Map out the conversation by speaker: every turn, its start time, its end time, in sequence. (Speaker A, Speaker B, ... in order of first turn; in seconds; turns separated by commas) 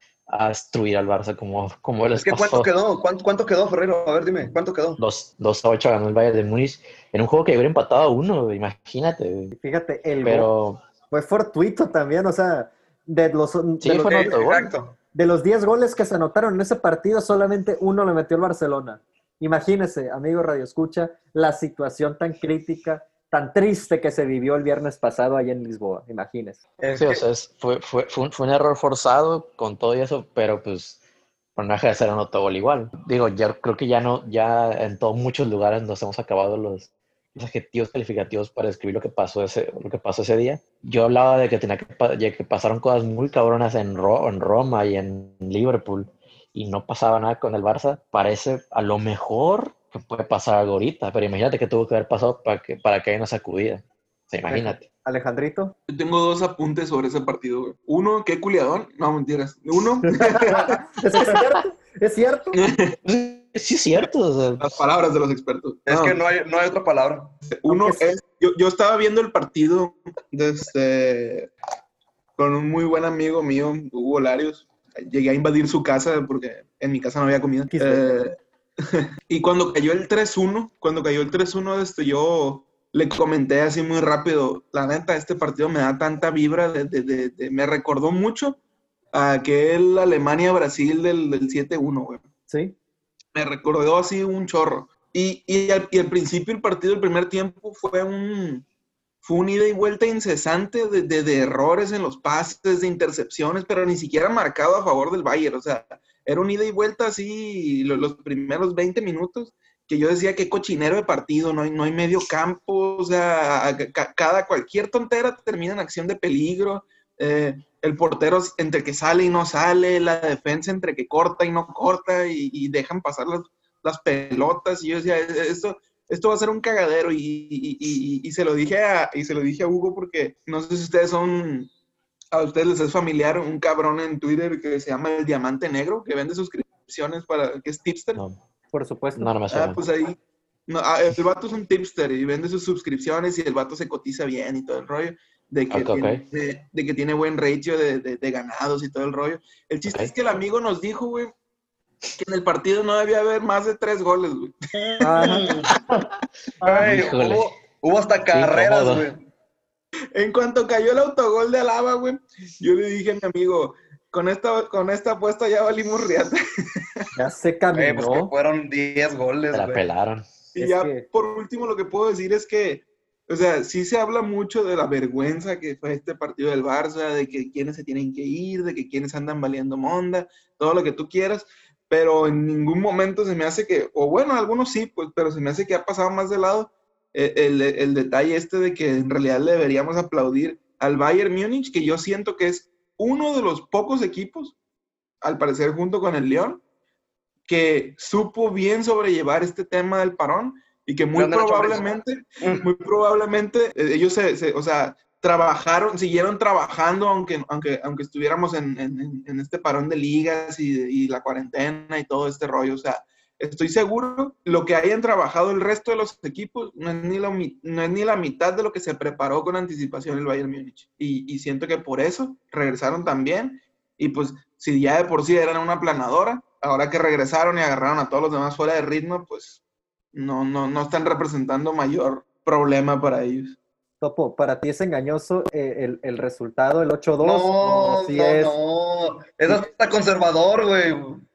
Speaker A: 0.3-2.7, Speaker B: 2.1-5.0, Speaker A: 5.0-9.5, Speaker C: 9.5-10.5, Speaker A: 10.2-10.8, Speaker C: 11.1-14.6, Speaker A: 13.8-14.7, Speaker B: 14.1-14.9, Speaker C: 15.1-26.6, Speaker B: 26.8-27.2, Speaker A: 26.9-31.0, Speaker A: 31.6-54.8, Speaker C: 54.5-55.7, Speaker D: 55.9-60.8, Speaker C: 60.1-62.6, Speaker B: 60.2-60.7, Speaker D: 62.5-63.0, Speaker A: 63.0-64.7, Speaker D: 64.6-66.2, Speaker B: 65.9-67.4, Speaker D: 67.6-71.5, Speaker C: 67.7-68.2, Speaker D: 72.4-78.3, Speaker C: 77.7-78.1, Speaker D: 79.3-88.6, Speaker D: 89.1-92.2, Speaker C: 92.5-92.7, Speaker D: 93.3-98.6, Speaker D: 99.2-131.7, Speaker D: 132.3-138.2, Speaker C: 138.7-139.3, Speaker A: 139.2-139.8, Speaker D: 139.5-151.3, Speaker A: 145.7-146.2, Speaker D: 152.2-155.6, Speaker B: 154.9-155.8, Speaker C: 155.0-155.5, Speaker A: 156.6-157.5, Speaker B: 156.6-159.2, Speaker A: 158.3-159.1, Speaker D: 160.1-167.0, Speaker C: 167.1-168.3, Speaker B: 167.7-169.8, Speaker A: 169.5-170.3, Speaker D: 170.5-194.6, Speaker C: 170.6-171.0, Speaker D: 195.2-196.6, Speaker D: 197.5-229.6, Speaker B: 201.1-201.8, Speaker B: 202.4-202.7, Speaker D: 230.1-233.6, Speaker C: 234.0-238.5, Speaker B: 237.2-241.2